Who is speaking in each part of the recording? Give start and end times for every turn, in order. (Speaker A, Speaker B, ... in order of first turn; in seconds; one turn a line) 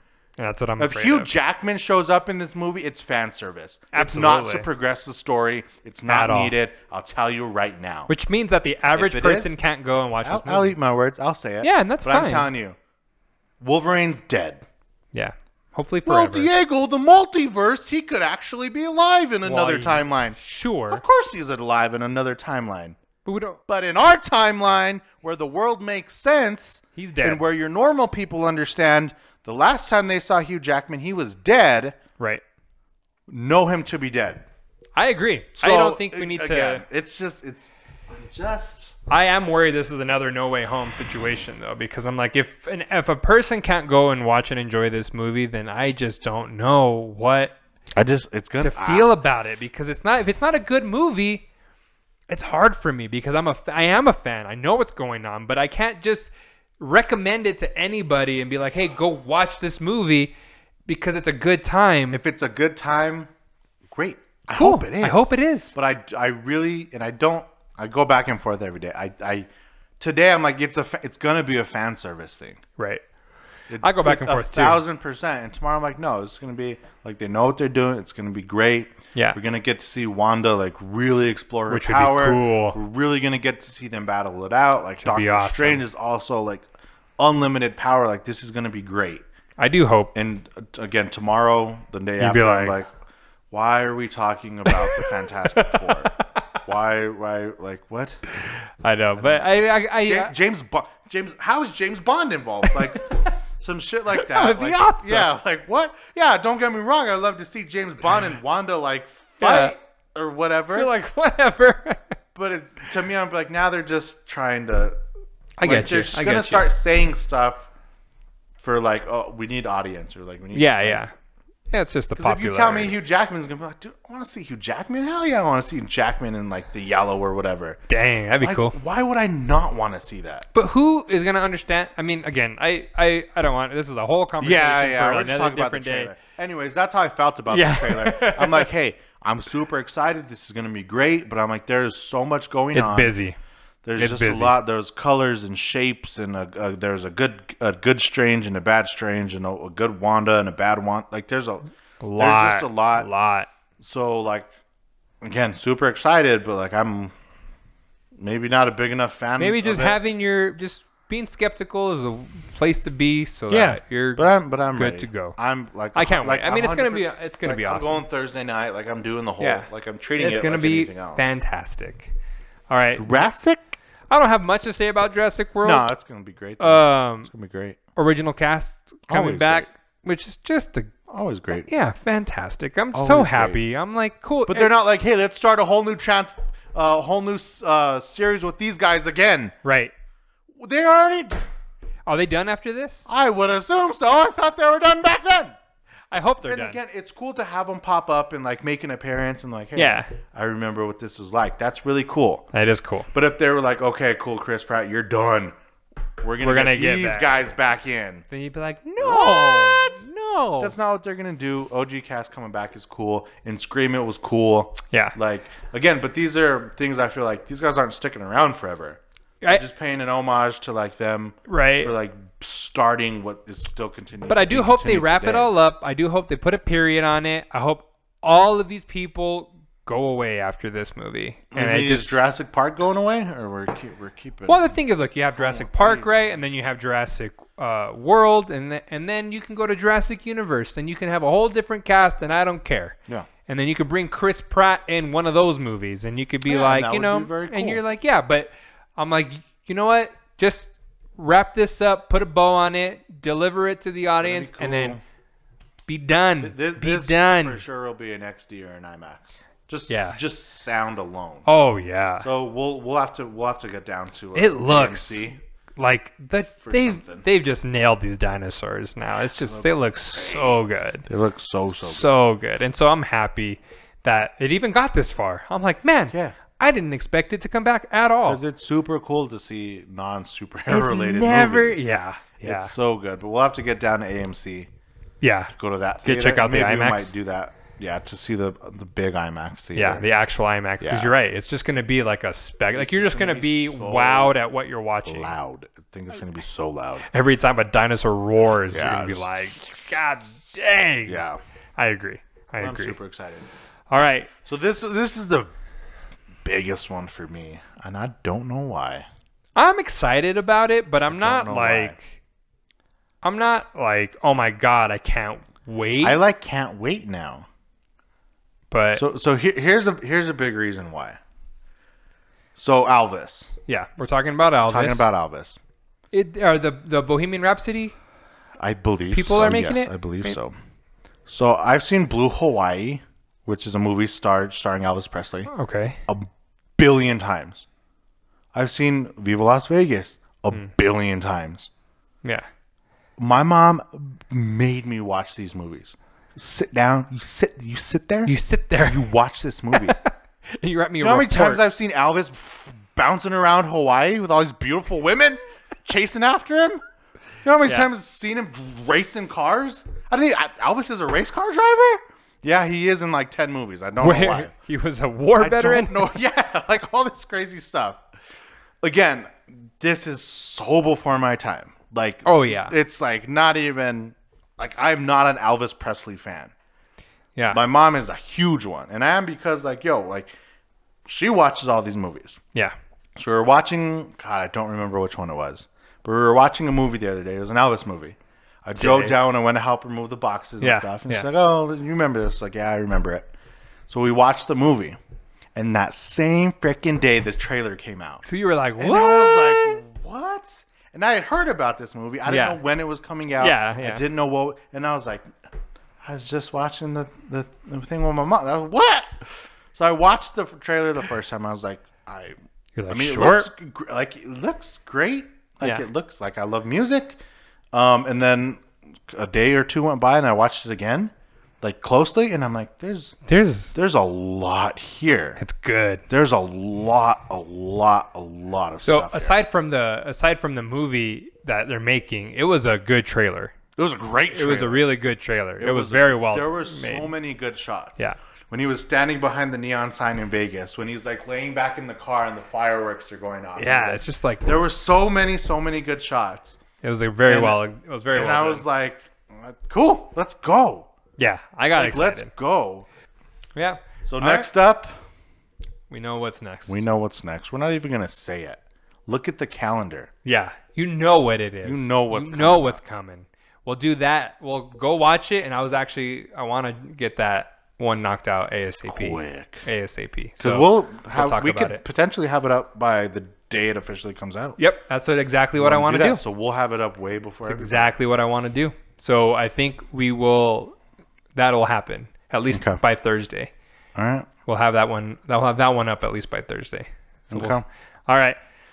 Speaker A: 0.4-1.3
Speaker B: 0.8-8.1
Speaker A: 3.9-4.7
Speaker A: 6.0-6.5
Speaker A: 8.1-10.8
Speaker B: 8.9-9.5
Speaker B: 10.2-12.8
Speaker A: 11.6-12.5
Speaker B: 13.6-14.6
Speaker A: 15.1-16.5
Speaker B: 16.1-20.4
Speaker A: 19.4-21.0
Speaker B: 20.9-23.0
Speaker A: 23.2-23.6
Speaker B: 23.7-32.0
Speaker A: 26.9-27.4
Speaker B: 33.3-34.4
Speaker A: 35.0-36.8
Speaker B: 35.6-38.9
Speaker A: 39.1-47.5
Speaker B: 47.9-49.1
Speaker A: 48.6-51.4
Speaker A: 52.3-60.3
Speaker A: 60.9-62.2
Speaker B: 62.1-63.3
Speaker B: 63.9-69.5
Speaker A: 64.5-65.7
Speaker B: 70.0-72.6
Speaker A: 72.8-73.0
Speaker B: 73.7-86.7
Speaker A: 73.8-74.8
Speaker A: 81.7-82.8
Speaker A: 85.0-85.8
Speaker B: 87.2-89.2
Speaker A: 89.6-90.1
Speaker B: 90.1-92.9
Speaker A: 92.2-92.8
Speaker B: 93.5-96.1
Speaker A: 94.7-96.6
Speaker B: 96.6-98.2
Speaker A: 98.8-100.3
Speaker B: 99.2-99.5
Speaker B: 100.0-110.9
Speaker A: 102.7-103.3
Speaker A: 104.1-105.3
Speaker A: 109.4-109.7
Speaker A: 110.7-112.2
Speaker B: 112.3-114.9
Speaker A: 115.6-116.7
Speaker B: 115.6-117.7
Speaker B: 118.6-121.0
Speaker A: 120.5-121.1
Speaker A: 121.7-123.0
Speaker B: 122.2-127.8
Speaker A: 127.9-128.8
Speaker B: 128.4-130.5
Speaker A: 130.5-136.1
Speaker B: 134.4-143.1
Speaker A: 137.5-138.7
Speaker A: 142.7-143.3
Speaker B: 143.8-151.6
Speaker A: 144.0-144.6
Speaker A: 152.0-153.5
Speaker B: 152.2-153.1
Speaker B: 153.8-154.5
Speaker B: 155.2-157.1
Speaker B: 158.2-160.0
Speaker A: 159.4-165.3
Speaker B: 163.5-171.2
Speaker A: 165.9-168.0
Speaker A: 169.4-172.1
Speaker A: 172.7-173.3
Speaker B: 172.9-173.8
Speaker A: 174.1-175.8
Speaker B: 175.6-177.8
Speaker A: 176.6-177.3
Speaker A: 177.9-180.9
Speaker B: 179.1-179.7
Speaker B: 181.1-181.7
Speaker A: 181.6-184.7
Speaker B: 182.9-183.6
Speaker B: 184.5-189.5
Speaker A: 189.6-189.9
Speaker B: 190.6-191.4
Speaker A: 192.1-193.1
Speaker B: 193.1-195.5
Speaker A: 196.1-196.8
Speaker B: 196.4-202.4
Speaker A: 199.8-200.1
Speaker A: 202.5-203.1
Speaker B: 203.1-205.5
Speaker B: 206.2-208.2
Speaker A: 206.4-207.3
Speaker A: 208.3-210.7
Speaker B: 209.0-210.0
Speaker B: 210.6-225.5
Speaker A: 221.5-221.9
Speaker A: 224.3-232.2
Speaker B: 231.5-234.7
Speaker A: 234.5-242.9
Speaker B: 235.3-236.4
Speaker A: 243.5-255.0
Speaker B: 246.4-247.8
Speaker B: 254.1-255.0
Speaker A: 255.9-257.6
Speaker B: 256.4-261.5
Speaker A: 259.9-260.2
Speaker A: 261.4-262.3
Speaker B: 262.2-265.4
Speaker A: 264.3-271.1
Speaker B: 266.6-267.2
Speaker B: 269.4-270.6
Speaker B: 271.1-272.1
Speaker A: 271.7-278.4
Speaker B: 276.1-276.4
Speaker B: 278.2-281.9
Speaker A: 280.7-282.7
Speaker B: 282.4-284.7
Speaker A: 285.2-285.5
Speaker B: 285.5-290.1
Speaker A: 286.0-287.1
Speaker A: 289.7-295.3
Speaker B: 290.8-291.1
Speaker B: 292.7-294.4
Speaker B: 295.0-297.1
Speaker A: 297.1-301.2
Speaker B: 298.7-299.3
Speaker B: 301.1-301.4
Speaker A: 301.8-303.0
Speaker B: 302.6-303.5
Speaker A: 303.9-304.3
Speaker B: 304.4-305.5
Speaker B: 306.4-309.1
Speaker A: 309.6-312.1
Speaker B: 311.1-312.0
Speaker A: 313.2-316.2
Speaker B: 316.0-317.5
Speaker A: 318.7-319.0
Speaker B: 318.9-321.2
Speaker B: 322.6-323.5
Speaker A: 323.7-325.1
Speaker B: 324.7-325.6
Speaker A: 326.1-327.9
Speaker B: 328.6-330.5
Speaker A: 329.1-330.4
Speaker B: 331.3-335.5
Speaker A: 335.5-336.0
Speaker B: 336.1-337.6
Speaker B: 338.5-341.7
Speaker B: 343.2-348.3
Speaker A: 348.2-349.1
Speaker B: 348.8-350.0
Speaker A: 349.7-351.6
Speaker B: 351.0-356.8
Speaker B: 357.4-364.5
Speaker A: 364.0-366.0
Speaker B: 365.4-368.0
Speaker B: 368.8-376.5
Speaker A: 372.2-372.7
Speaker B: 377.5-380.3
Speaker B: 381.1-382.4
Speaker B: 383.1-393.3
Speaker A: 388.8-389.1
Speaker A: 390.6-391.3
Speaker B: 393.9-395.0
Speaker B: 395.5-398.2
Speaker A: 398.2-399.8
Speaker B: 398.8-405.3
Speaker A: 402.2-402.6
Speaker A: 403.4-404.0
Speaker B: 406.0-412.4
Speaker A: 412.8-413.5
Speaker B: 412.9-417.2
Speaker B: 417.7-423.1
Speaker A: 423.2-423.7
Speaker B: 423.7-425.4
Speaker A: 425.4-426.0
Speaker B: 426.1-429.3
Speaker A: 428.8-433.5
Speaker B: 433.8-434.9
Speaker A: 434.3-437.1
Speaker B: 435.6-446.6
Speaker A: 443.6-444.6
Speaker A: 446.8-448.6
Speaker B: 447.3-447.6
Speaker B: 448.1-450.9
Speaker A: 451.2-452.3
Speaker B: 451.7-452.9
Speaker A: 453.6-454.5
Speaker B: 454.1-454.9
Speaker A: 455.9-456.8
Speaker B: 456.7-460.1
Speaker A: 460.2-471.8
Speaker B: 461.6-462.8
Speaker B: 468.8-469.6
Speaker B: 470.4-474.6
Speaker A: 474.6-476.2
Speaker B: 475.6-477.9
Speaker A: 477.4-480.7
Speaker A: 481.3-483.5
Speaker B: 482.5-482.8
Speaker B: 483.9-484.3
Speaker A: 484.4-488.4
Speaker B: 487.3-487.6